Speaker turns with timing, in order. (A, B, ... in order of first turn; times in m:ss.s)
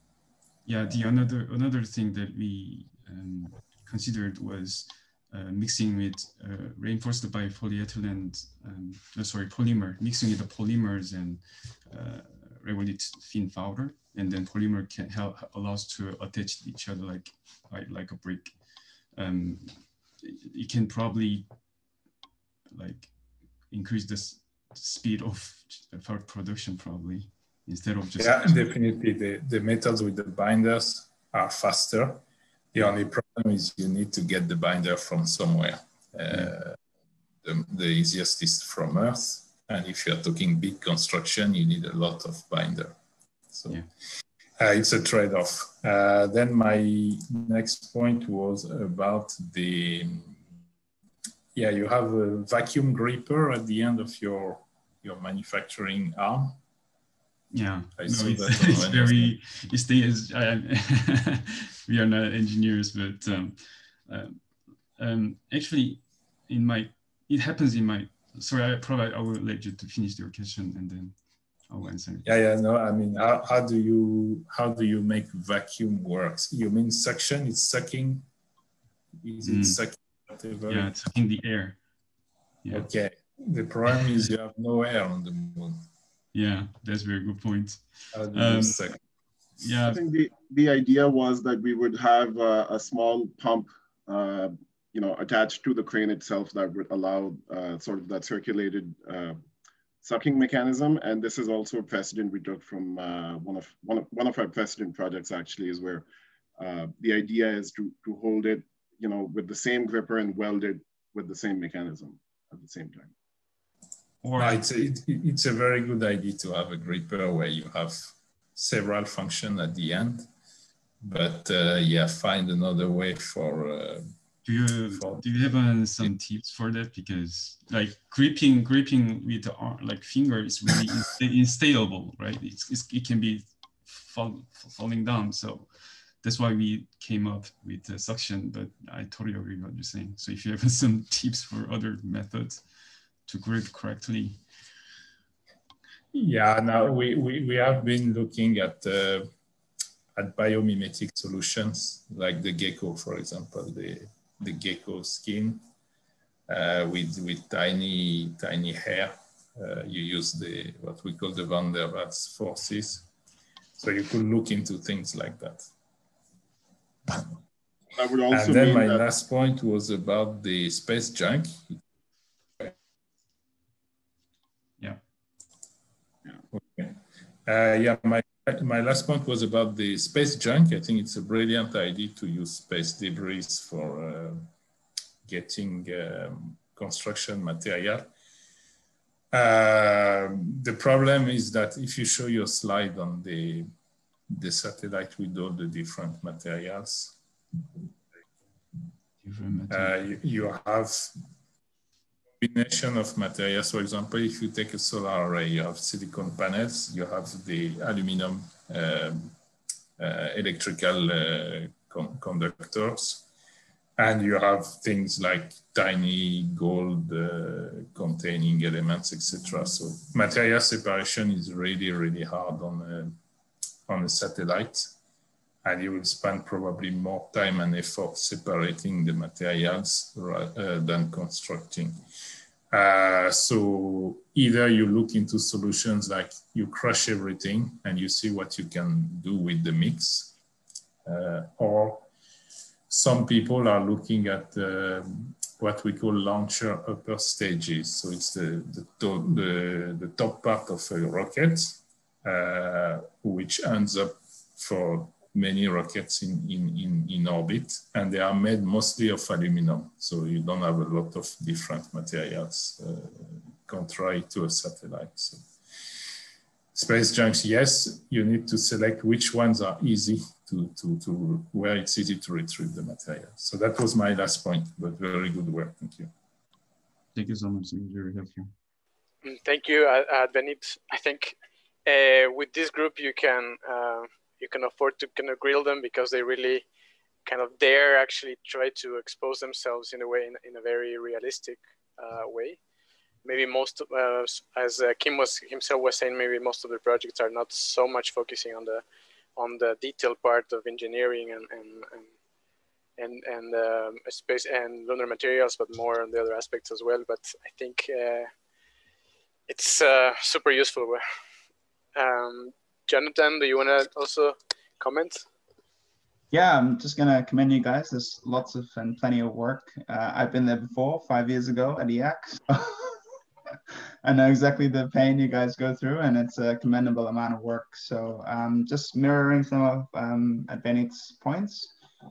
0:00.6-0:21.5 A
0:22.7-0:28.8 A
0:28.2-0:32.2 B
0:32.7-0:36.8 B
0:37.4-0:43.0 B
0:43.5-0:43.8 B
0:44.6-0:50.4 B
0:51.6-0:56.6 B
0:57.5-1:12.3 A
0:58.0-0:59.4 B
1:12.2-1:18.3 B
1:19.2-1:20.9 B
1:19.4-1:19.8 A
1:20.7-1:21.8 A
1:22.6-1:22.9 A
1:22.7-1:25.8 B
1:26.3-1:28.8 A
1:28.1-1:29.0 B
1:29.6-1:30.0 A
1:29.9-1:39.4 C
1:40.0-1:46.0 C
1:46.6-1:53.1 C
1:54.2-1:54.6 A
1:54.4-2:00.3 B
2:01.0-2:04.1 B
2:04.4-2:24.4 A
2:04.9-2:05.5 B
2:26.1-2:29.3 B
2:30.2-2:35.6 B
2:36.5-2:43.1 B
2:43.8-2:45.7 B
2:47.9-2:49.0 C
2:48.3-2:51.6 B
2:56.6-3:04.5 B
3:05.3-3:08.1 B
3:09.3-3:13.7 B
3:14.3-3:17.2 B
3:19.2-3:20.0 A
3:19.7-3:21.1 B
3:22.4-3:29.4 B
3:30.0-3:33.2 B
3:34.0-3:43.2 B
3:43.9-3:44.9 B
3:45.6-3:52.0 B
3:52.7-4:00.3 B
4:01.0-4:02.1 B
4:02.9-4:25.5 B
4:26.7-4:36.1 B
4:37.1-4:38.5 A
4:39.2-4:46.6 D
4:47.3-4:52.6 D
4:53.2-4:58.8 D
4:59.4-5:02.1 D
5:03.0-5:08.3 D
5:09.5-5:11.0 D
5:12.0-5:15.3 D
5:16.3-5:23.0 E
5:24.0-5:31.7 E